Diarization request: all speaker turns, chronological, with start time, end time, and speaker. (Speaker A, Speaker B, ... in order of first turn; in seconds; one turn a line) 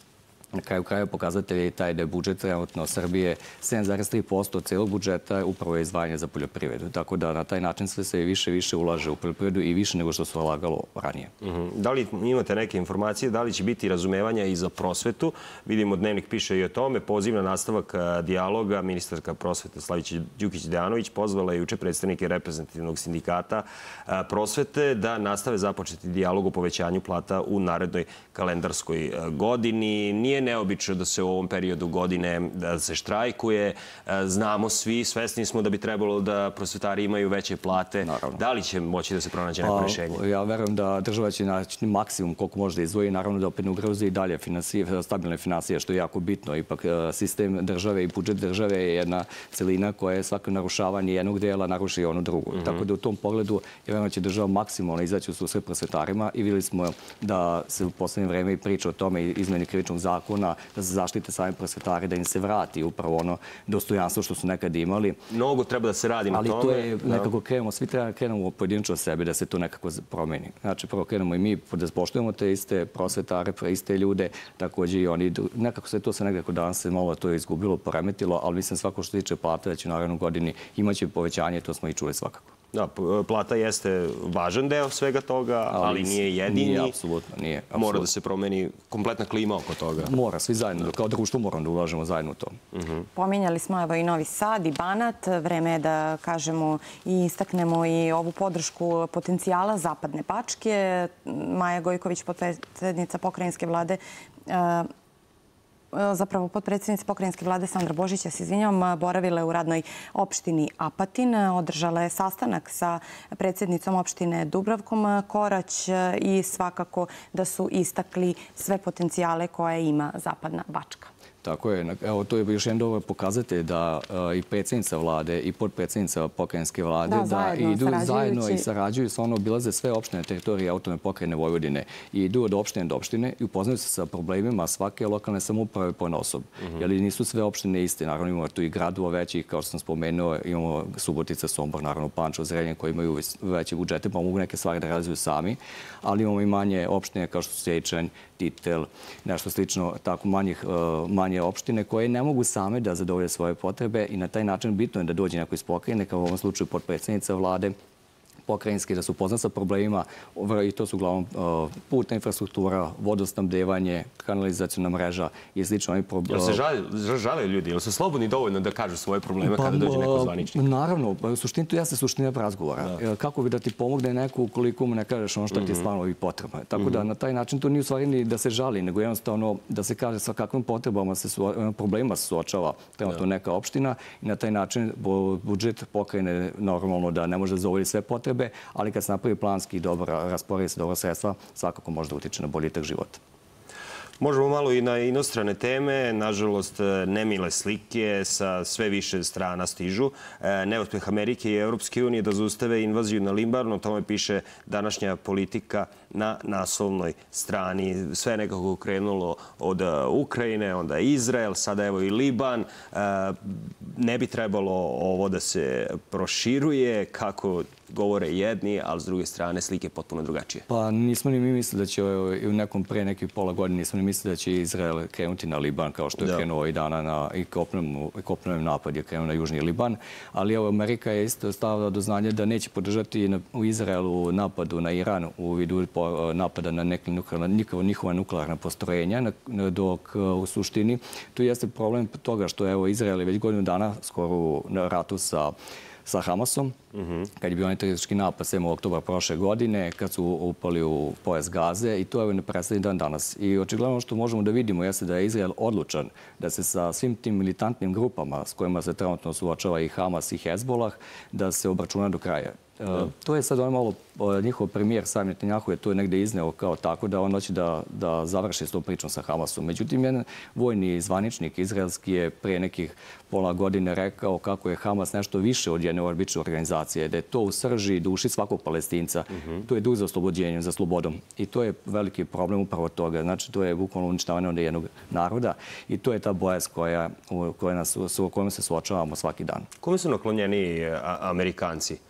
Speaker A: 0.5-11.3
Speaker B: 11.4-40.2
Speaker A: 38.0-38.4
Speaker A: 39.6-65.2
Speaker B: 52.6-52.8
Speaker B: 65.3-67.3
Speaker A: 66.3-82.5
Speaker B: 82.7-87.0
Speaker A: 85.7-88.0
Speaker B: 87.7-90.1
Speaker A: 90.0-92.6
Speaker B: 92.7-93.0
Speaker C: 93.1-104.9
Speaker C: 105.9-121.1
Speaker A: 121.4-157.7
Speaker C: 127.0-128.7
Speaker A: 158.4-166.6
Speaker B: 166.3-170.6
Speaker A: 169.4-193.2
Speaker B: 175.5-175.8
Speaker B: 176.8-177.0
Speaker B: 194.2-220.6
Speaker A: 220.7-245.5
Speaker A: 246.1-246.7
Speaker A: 247.4-289.7
Speaker B: 289.8-292.0